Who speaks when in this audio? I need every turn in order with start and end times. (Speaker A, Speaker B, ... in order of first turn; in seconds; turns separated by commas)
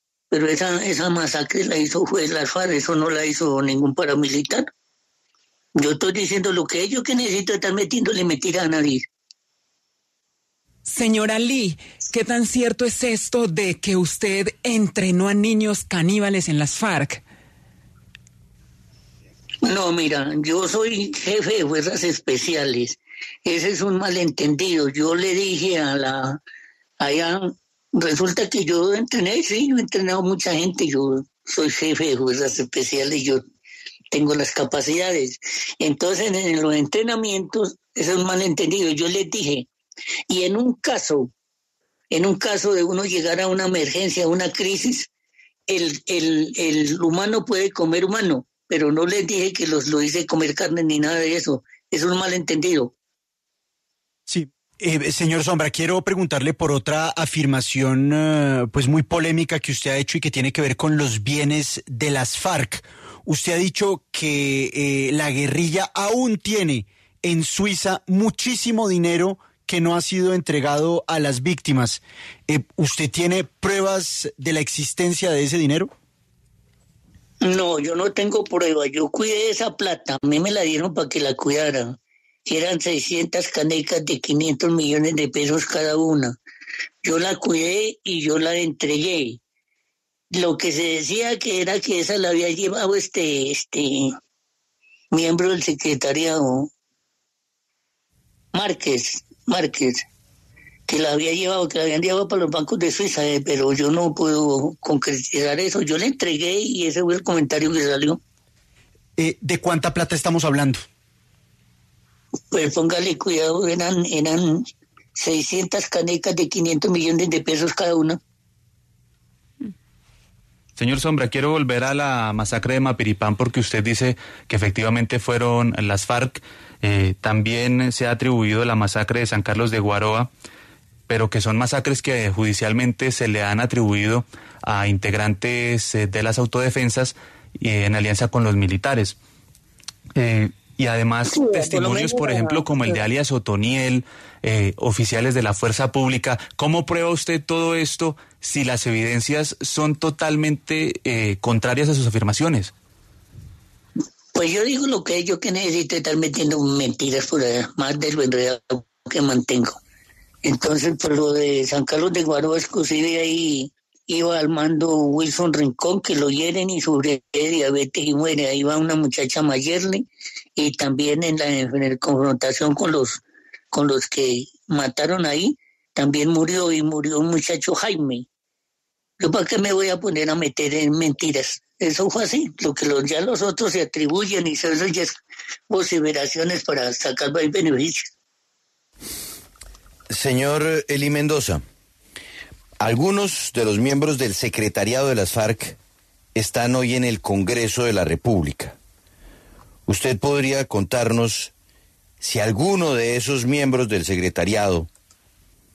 Speaker A: 0.3-4.7, Speaker A: 5.7-9.1, Speaker B: 10.8-17.2, Speaker A: 19.6-26.4, Speaker A: 27.0-33.4, Speaker A: 34.1-39.6, Speaker A: 40.3-41.3, Speaker A: 42.1-45.1, Speaker A: 45.7-52.9, Speaker C: 54.3-75.9, Speaker A: 77.4-86.3, Speaker A: 87.0-89.4, Speaker A: 90.3-94.2, Speaker A: 95.1-96.7, Speaker A: 98.5-100.0, Speaker A: 100.9-108.2, Speaker C: 109.2-110.8, Speaker A: 112.5-118.2, Speaker D: 120.8-130.3, Speaker D: 131.1-139.2, Speaker D: 140.1-152.7, Speaker A: 141.3-143.0, Speaker A: 154.3-159.8, Speaker A: 160.4-170.0, Speaker A: 170.6-173.2, Speaker A: 173.7-178.2, Speaker A: 179.2-185.2, Speaker A: 185.7-188.1, Speaker E: 190.1-191.6, Speaker E: 192.8-195.8, Speaker E: 196.3-198.8, Speaker E: 199.9-201.5, Speaker E: 202.2-204.9